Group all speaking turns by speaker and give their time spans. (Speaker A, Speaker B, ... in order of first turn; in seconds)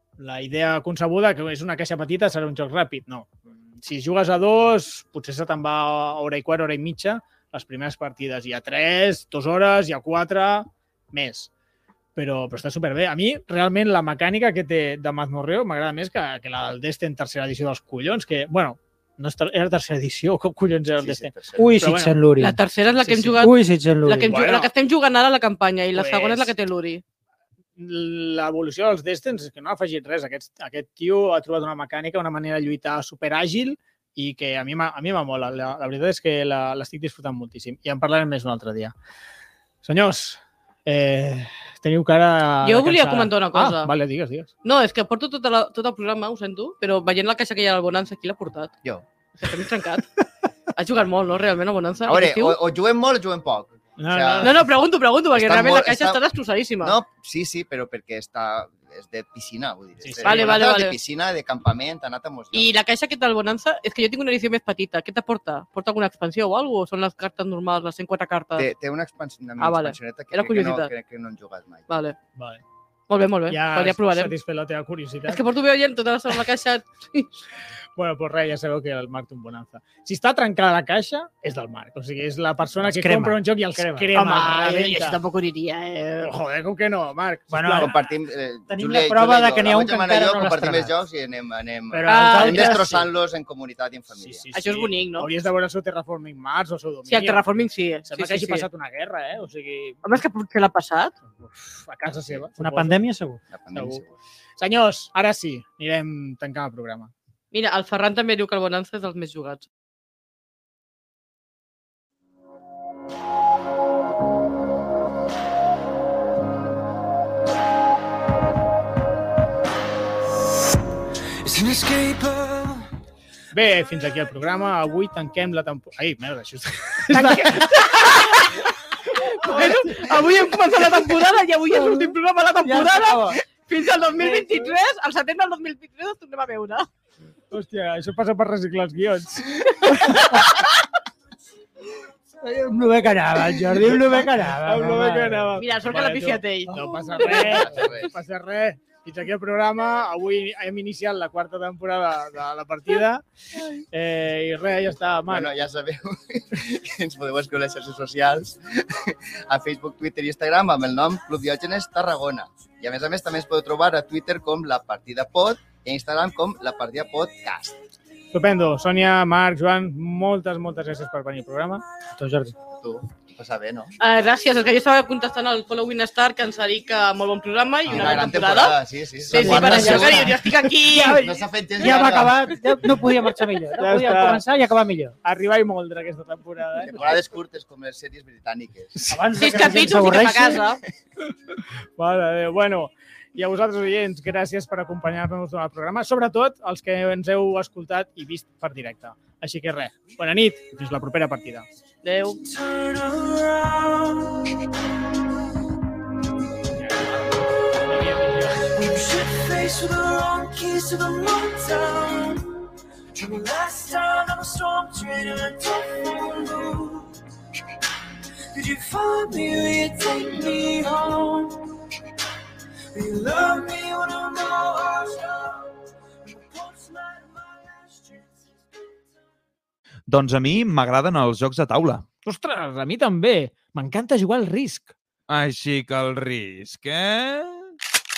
Speaker A: 0.2-11.5, 12.2-22.1, 23.1-23.4, 24.3-24.7, 25.9-26.5, 27.8-38.9, 39.8-44.5, 54.0-54.7, 60.0-60.7, 72.4-72.6, 73.5-75.4, 78.0-85.2, 86.2-87.9, 94.2-97.5, 98.1-100.0, 101.4-103.0, 103.7-104.0, 104.6-107.1, 123.5-127.9, 129.4-129.9, 137.5-140.5, 144.6-155.5, 168.3-171.8, 179.6-180.4, 180.9-181.2, 183.8-184.4, 185.2-187.2, 192.0-201.7, 206.7-207.3, 207.9-208.7, 232.2-234.9
Speaker B: 21.0-21.8, 52.1-54.6, 55.3-56.2, 56.8-62.7, 68.6-71.9, 87.8-94.5, 103.5-104.1, 147.2-148.1, 155.3-167.8, 172.8-173.9, 177.8-180.4, 181.0-182.6, 186.8-189.1
Speaker C: 21.6-22.6, 23.4-24.4, 82.8-84.6, 87.5-87.9, 88.7-91.0, 91.9-93.1, 102.6-103.4, 132.9-133.3, 142.4-145.6, 172.1-172.6, 179.3-181.1, 181.8-185.2, 189.1-190.7
Speaker D: 22.4-27.0, 42.6-43.9, 44.6-48.7, 49.4-50.1, 50.7-52.6, 54.4-57.0, 60.2-61.0, 62.5-68.7, 69.6-70.9, 71.9-72.2, 73.1-74.3, 75.3-77.3, 84.1-86.3, 92.1-92.9, 94.5-95.3, 97.1-98.6, 100.0-101.1, 107.5-109.7, 127.1-136.9, 139.9-140.4, 145.6-147.7, 174.0-181.4, 189.4-190.8, 202.0-202.4
Speaker E: 121.4-122.9, 132.9-133.3, 202.4-204.6, 208.6-217.1, 218.5-221.8, 222.9-228.5
Speaker F: 230.1-232.0, 235.3-237.7